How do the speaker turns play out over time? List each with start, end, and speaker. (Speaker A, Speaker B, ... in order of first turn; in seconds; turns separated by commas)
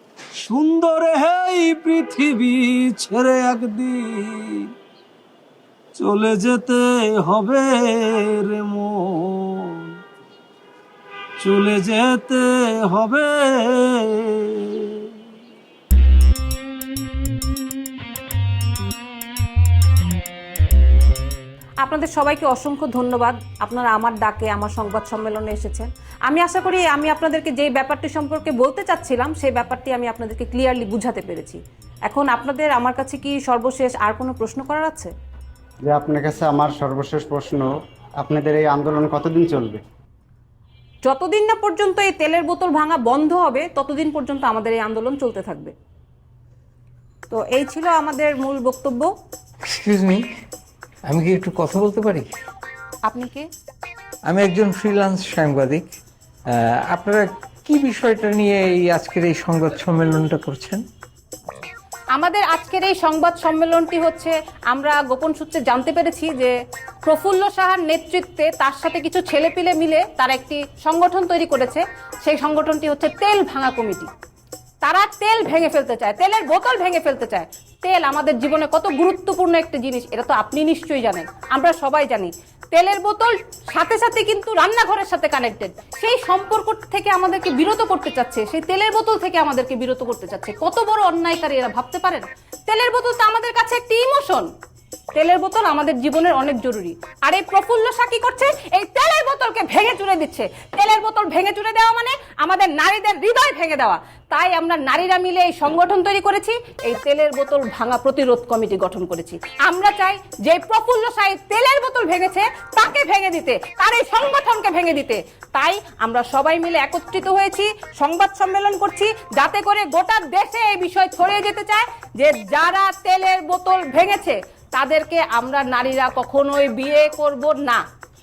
Speaker A: 0.5-4.7, Speaker A: 6.0-10.0, Speaker A: 11.4-14.8, Speaker B: 21.8-35.1, Speaker C: 35.8-39.8, Speaker B: 41.0-45.7, Speaker B: 47.3-49.1, Speaker D: 49.6-50.2, Speaker D: 51.1-52.3, Speaker B: 53.0-53.5, Speaker D: 54.3-55.9, Speaker D: 56.5-60.8, Speaker B: 62.1-66.5, Speaker B: 67.1-74.1, Speaker B: 74.8-94.5, Speaker B: 95.1-127.8